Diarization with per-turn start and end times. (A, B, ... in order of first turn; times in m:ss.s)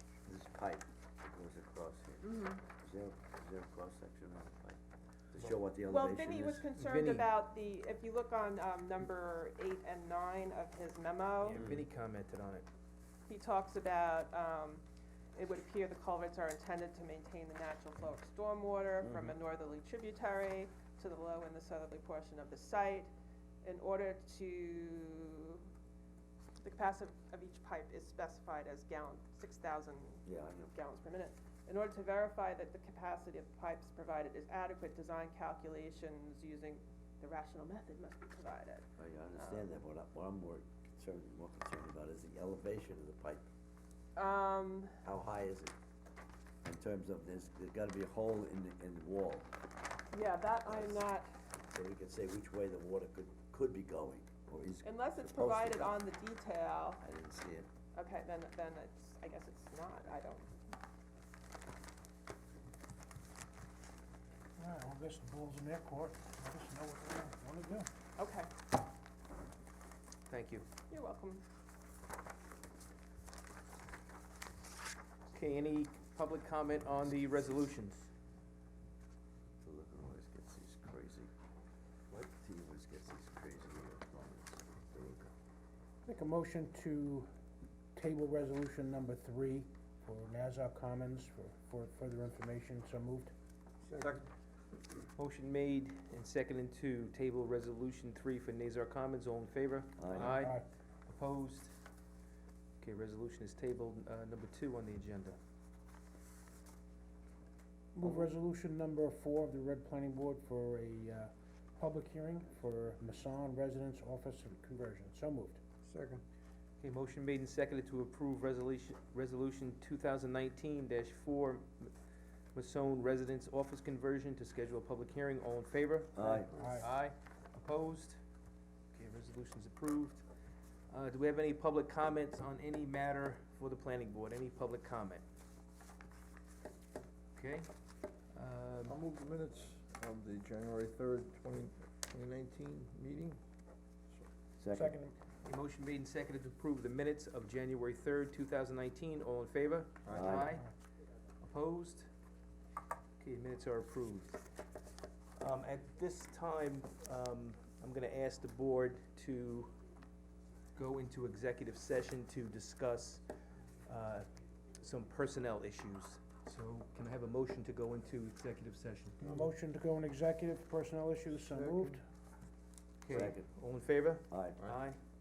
0:00.3-0:04.8 A
0:02.2-0:02.6 B
0:05.3-0:06.6 A
0:05.9-0:11.6 B
0:06.8-0:07.3 C
0:11.4-0:12.6 C
0:11.6-0:11.8 A
0:13.3-0:14.8 B
0:15.4-0:23.1 B
0:19.0-0:19.4 A
0:23.6-0:25.7 B
0:26.6-0:38.8 B
0:30.3-0:30.7 A
0:39.0-0:43.4 A
0:39.4-0:39.7 B
0:44.2-0:45.0 B
0:45.0-0:45.7 A
0:46.6-0:49.5 A
0:50.1-0:51.3 B
0:50.7-0:51.1 A
0:51.7-0:56.0 A
0:54.8-0:57.0 B
0:57.0-0:57.7 A
0:57.9-1:00.5 B
1:04.6-1:07.9 D
1:08.2-1:08.5 B
1:10.3-1:10.7 C
1:10.9-1:11.4 B
1:15.3-1:18.1 C
1:19.6-1:21.3 A
1:22.1-1:25.3 A
1:26.0-1:27.3 D
1:27.9-1:33.3 D
1:33.8-1:34.2 E
1:35.2-1:41.7 C
1:40.0-1:40.4 A
1:40.1-1:40.7 D
1:42.8-1:45.4 C
1:47.9-1:55.6 D
1:55.8-1:56.2 E
1:56.8-2:01.9 C
2:02.6-2:08.2 C
2:06.2-2:06.5 A
2:06.3-2:06.8 D
2:08.9-2:10.2 C
2:10.9-2:15.2 C
2:17.4-2:17.7 C
2:18.3-2:19.0 C
2:18.8-2:23.4 E
2:24.6-2:24.9 A
2:24.7-2:25.2 D
2:25.4-2:30.7 C
2:30.1-2:30.4 E
2:30.1-2:30.6 A
2:31.4-2:32.1 C
2:33.2-2:34.4 C
2:35.4-2:39.8 C
2:40.8-2:43.2 C
2:43.9-2:44.3 C
2:44.8-2:49.2 C
2:49.2-2:49.5 E
2:49.3-2:52.0 D
2:51.3-2:52.0 E
2:53.0-2:55.0 C
2:53.1-2:53.5 A
2:54.3-2:54.6 A